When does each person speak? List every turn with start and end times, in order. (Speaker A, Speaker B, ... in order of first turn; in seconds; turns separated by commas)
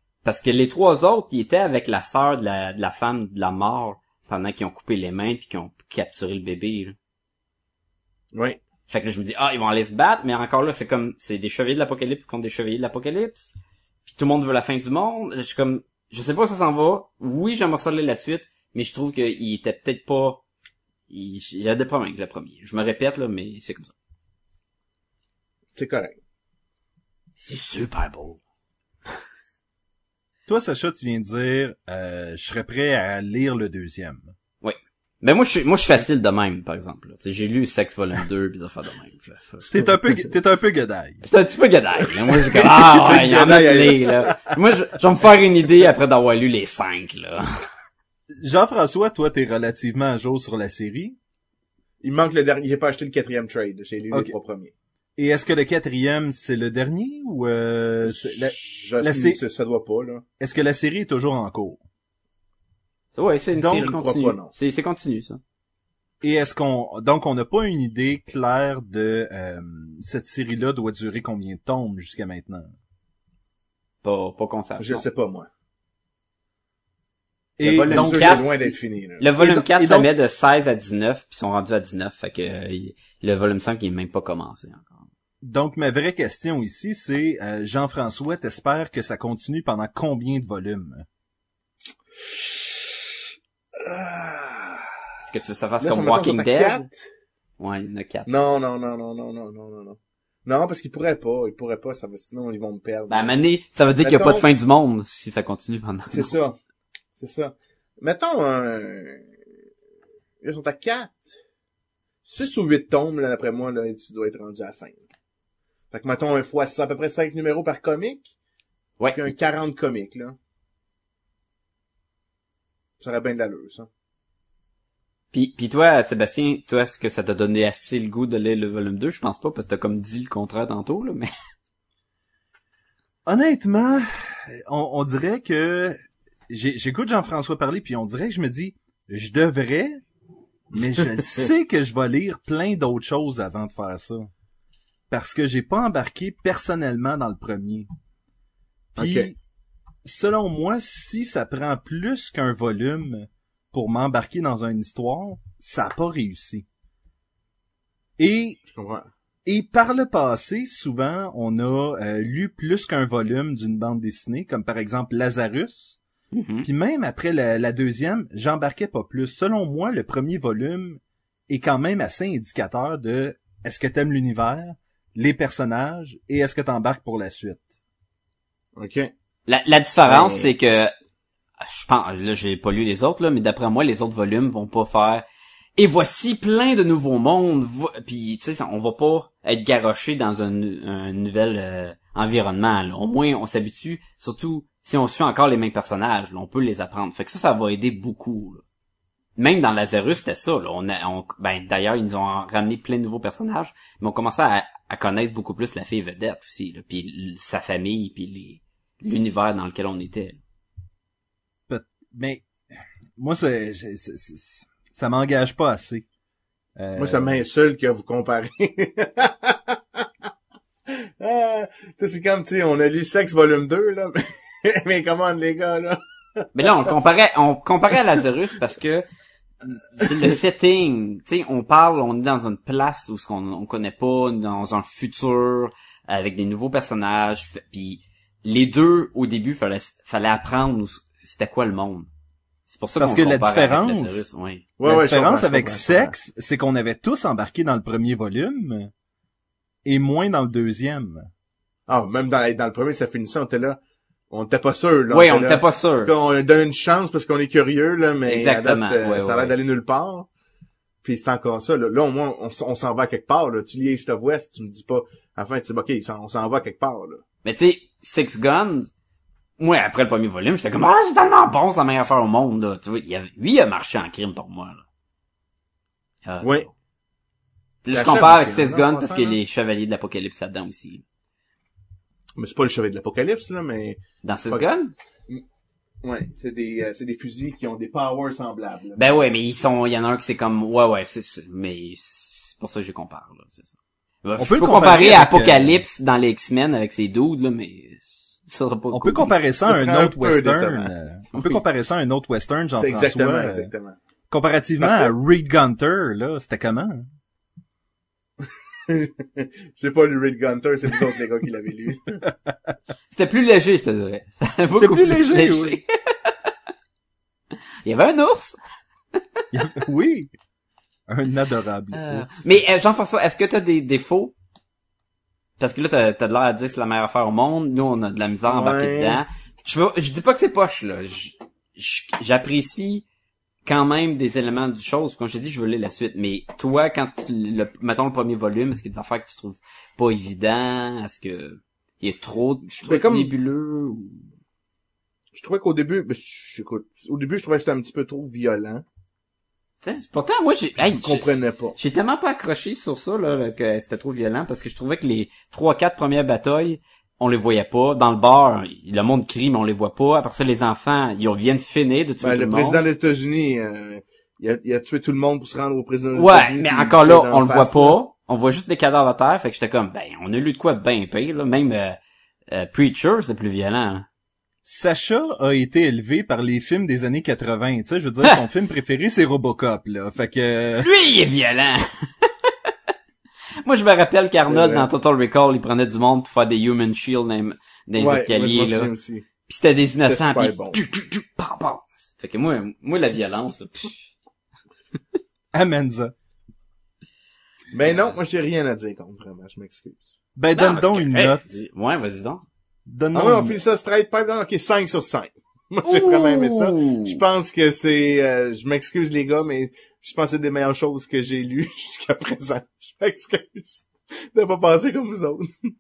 Speaker A: 0.2-7.0, Speaker B: 8.3-8.6, Speaker A: 8.9-13.5, Speaker A: 14.1-20.4, Speaker A: 21.1-23.9, Speaker B: 25.8-26.2, Speaker A: 27.4-28.4, Speaker C: 30.5-34.3, Speaker A: 34.6-39.7, Speaker C: 39.7-41.2, Speaker A: 41.2-47.5, Speaker B: 42.5-44.5, Speaker C: 48.4-51.2, Speaker B: 52.0-54.7, Speaker C: 55.2-59.4, Speaker B: 58.0-60.2, Speaker C: 60.4-61.8, Speaker A: 63.1-65.4, Speaker C: 63.6-63.9, Speaker B: 63.7-64.5, Speaker C: 66.2-72.7, Speaker A: 74.0-75.0, Speaker B: 74.8-75.5, Speaker C: 77.6-78.4, Speaker A: 77.6-85.0, Speaker B: 77.7-79.2, Speaker C: 79.4-80.1, Speaker C: 85.4-91.1, Speaker B: 92.3-92.9, Speaker B: 93.8-94.9, Speaker A: 95.3-96.8, Speaker B: 95.8-97.1, Speaker A: 97.6-98.3, Speaker B: 98.3-103.3, Speaker A: 103.1-106.3, Speaker B: 104.0-104.5, Speaker B: 106.1-106.6, Speaker B: 107.2-109.3, Speaker B: 110.4-111.4, Speaker B: 112.2-115.0, Speaker B: 115.9-118.3, Speaker A: 119.0-119.3, Speaker B: 119.1-120.4, Speaker B: 123.0-123.9, Speaker A: 125.3-131.3, Speaker C: 133.3-136.0, Speaker C: 136.5-140.0, Speaker C: 140.7-144.3, Speaker B: 141.0-141.5, Speaker C: 145.1-147.9, Speaker C: 148.9-149.4, Speaker B: 149.0-149.3, Speaker C: 150.1-156.7, Speaker C: 158.2-158.6, Speaker B: 158.7-159.1, Speaker C: 159.5-166.0, Speaker A: 166.3-166.7, Speaker C: 166.6-177.7, Speaker B: 178.8-179.1, Speaker A: 179.5-180.9, Speaker B: 180.1-180.5, Speaker A: 181.6-185.2, Speaker A: 185.8-198.6, Speaker A: 199.4-210.4, Speaker C: 211.7-212.5, Speaker C: 213.2-216.1, Speaker C: 216.8-217.4, Speaker B: 217.0-219.8, Speaker B: 221.0-226.9, Speaker A: 226.6-229.0, Speaker A: 230.0-242.1, Speaker A: 242.7-244.7, Speaker C: 243.0-244.3, Speaker B: 244.8-246.1, Speaker C: 244.8-248.9, Speaker C: 249.8-251.3, Speaker B: 251.9-253.8, Speaker B: 254.3-260.3, Speaker A: 255.1-256.1, Speaker A: 258.3-259.6, Speaker B: 261.0-267.2, Speaker A: 267.4-268.9, Speaker A: 269.6-274.9, Speaker A: 276.2-276.6, Speaker B: 276.4-276.7, Speaker A: 277.9-281.0, Speaker B: 277.9-279.4, Speaker B: 282.4-284.7, Speaker A: 284.2-284.9, Speaker B: 286.0-289.3, Speaker A: 289.0-293.7, Speaker A: 294.2-299.3, Speaker C: 294.4-295.8, Speaker C: 298.9-303.7, Speaker B: 299.6-300.9, Speaker A: 301.3-301.6, Speaker B: 302.8-304.0, Speaker C: 304.3-307.1, Speaker B: 304.8-305.1, Speaker B: 308.9-312.2, Speaker A: 313.1-316.3, Speaker C: 314.8-315.8, Speaker A: 317.8-318.6, Speaker A: 319.1-319.4, Speaker C: 319.5-320.3, Speaker C: 321.1-322.6, Speaker A: 321.9-324.3, Speaker A: 325.6-333.0, Speaker B: 328.5-329.2, Speaker A: 333.7-344.2, Speaker B: 342.7-343.3, Speaker B: 345.4-348.9, Speaker A: 349.8-362.8, Speaker B: 350.8-351.8, Speaker B: 362.2-368.0, Speaker A: 366.1-372.0, Speaker A: 372.5-374.1, Speaker C: 374.6-380.9, Speaker A: 380.8-382.3, Speaker A: 383.6-388.9, Speaker B: 384.5-384.9, Speaker B: 387.9-389.3, Speaker A: 389.5-394.1, Speaker B: 390.0-390.8, Speaker C: 395.5-396.1, Speaker B: 397.7-400.0, Speaker C: 400.4-401.4, Speaker A: 400.5-402.4, Speaker C: 402.9-403.6, Speaker B: 403.1-415.5, Speaker A: 405.9-407.2